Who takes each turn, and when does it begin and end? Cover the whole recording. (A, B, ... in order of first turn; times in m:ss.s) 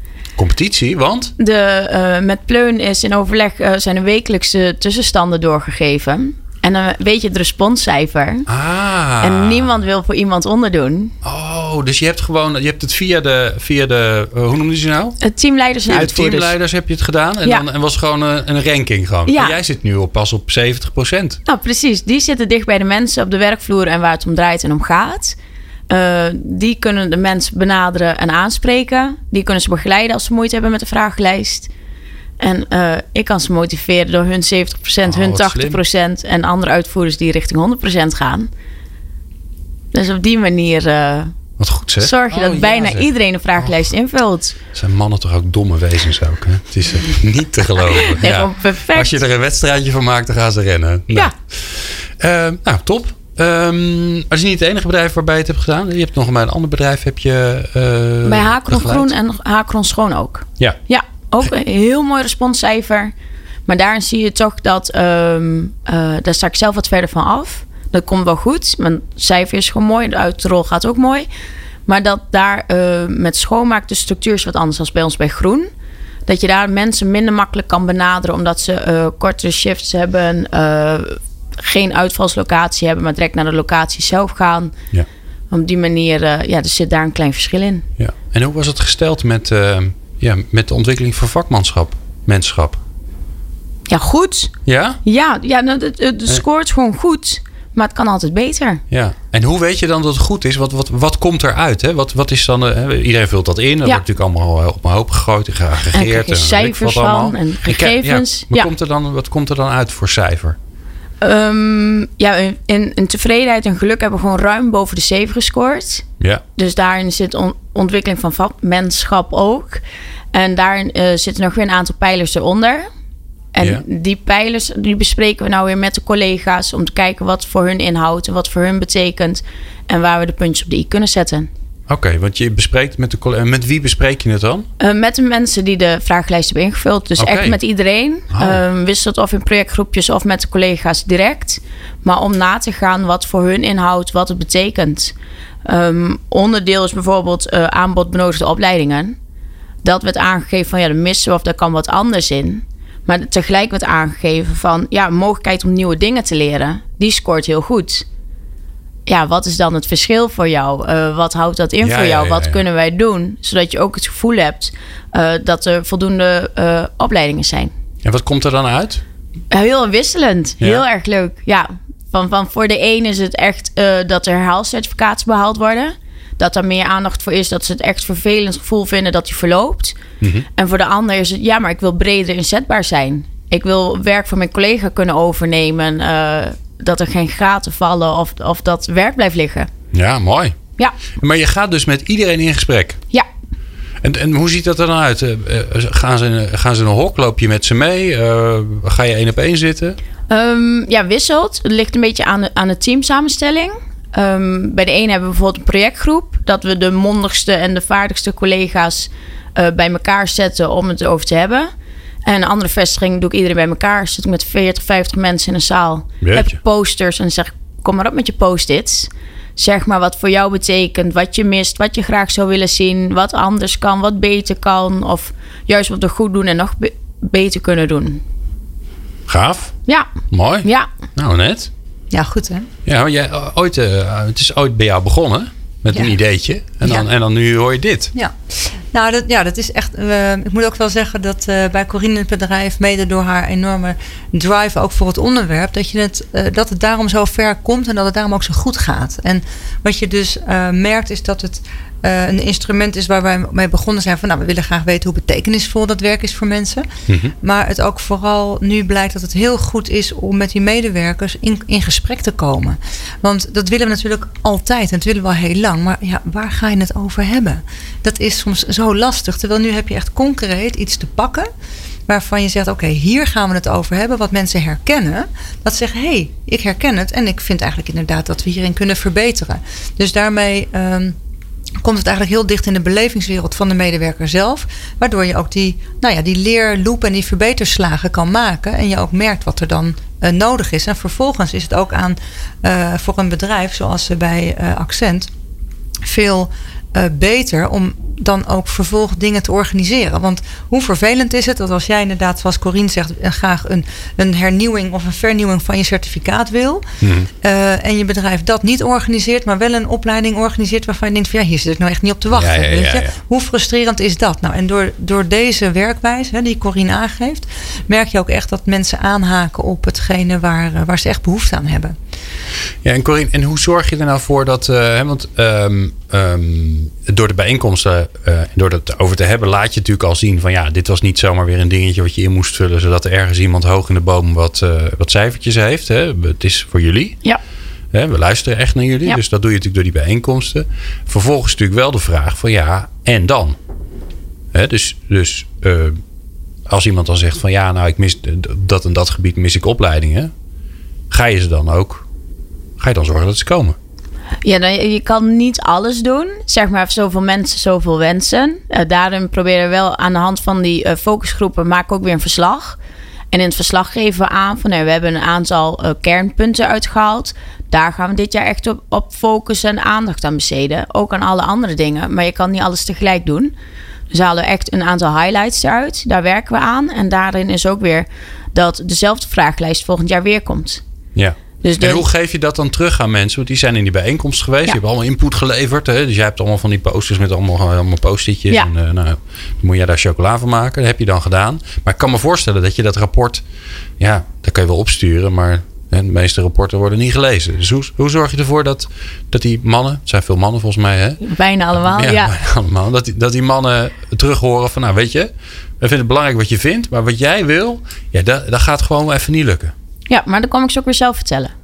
0:00.4-0:01.3 A
0:01.4-0:08.5 B
0:08.5-0:09.8 A
0:09.2-0:11.1 B
0:11.2-0:15.2 A
0:15.2-0:16.5 B
0:15.9-0:21.4 A
0:19.3-0:19.6 B
0:21.4-0:25.4 B
0:25.9-0:31.7 B
0:32.4-0:38.5 B
0:35.0-0:35.8 A
0:39.9-0:41.3 B
0:41.6-0:43.7 A
0:42.0-0:44.6 B
0:44.7-0:59.1 A
0:47.9-0:49.2 B
0:58.2-1:03.1 B
1:03.7-1:11.3 B
1:11.9-1:15.7 B
1:16.2-1:24.7 B
1:25.5-1:27.8 B
1:28.0-1:32.8 A
1:33.9-1:34.5 B
1:34.6-1:35.0 A
1:35.0-1:38.8 B
1:38.9-1:50.6 A
1:45.9-1:48.7 B
1:51.2-1:56.0 B
1:56.6-1:59.8 B
2:00.3-2:02.9 B
2:03.5-2:11.5 B
2:11.9-2:14.7 A
2:14.8-2:25.1 B
2:17.2-2:17.6 A
2:18.3-2:18.6 A
2:25.6-2:29.2 B
2:29.8-2:38.0 B
2:39.0-2:47.7 B
2:41.8-2:42.6 A
2:48.0-2:49.0 A
2:49.5-3:00.0 B
3:00.5-3:09.7 B
3:09.9-3:10.6 A
3:11.2-3:13.0 A
3:14.0-3:20.0 A
3:20.3-3:31.7 B
3:32.2-3:48.2 B
3:36.2-3:36.6 A
3:49.3-3:49.8 A
3:50.3-3:51.7 A
3:50.6-3:50.9 B
3:52.1-3:52.7 C
3:52.8-3:58.1 A
3:56.8-3:57.1 C
3:58.1-4:16.8 C
4:17.1-4:17.3 A
4:17.4-4:31.5 C
4:32.1-4:41.1 C
4:41.8-4:55.3 C
4:56.0-5:06.8 C
5:07.0-5:07.3 A
5:07.4-5:21.9 C
5:12.3-5:13.1 A
5:22.8-5:37.2 A
5:37.9-5:43.6 A
5:44.5-5:46.0 A
5:46.7-5:50.3 A
5:51.1-5:52.0 A
5:52.8-5:53.8 A
5:54.4-6:02.8 B
6:03.3-6:13.5 B
6:14.1-6:20.8 B
6:21.1-6:33.4 A
6:21.6-6:22.0 B
6:34.0-6:41.2 A
6:41.2-6:42.3 B
6:41.8-6:49.7 A
6:50.1-6:51.5 B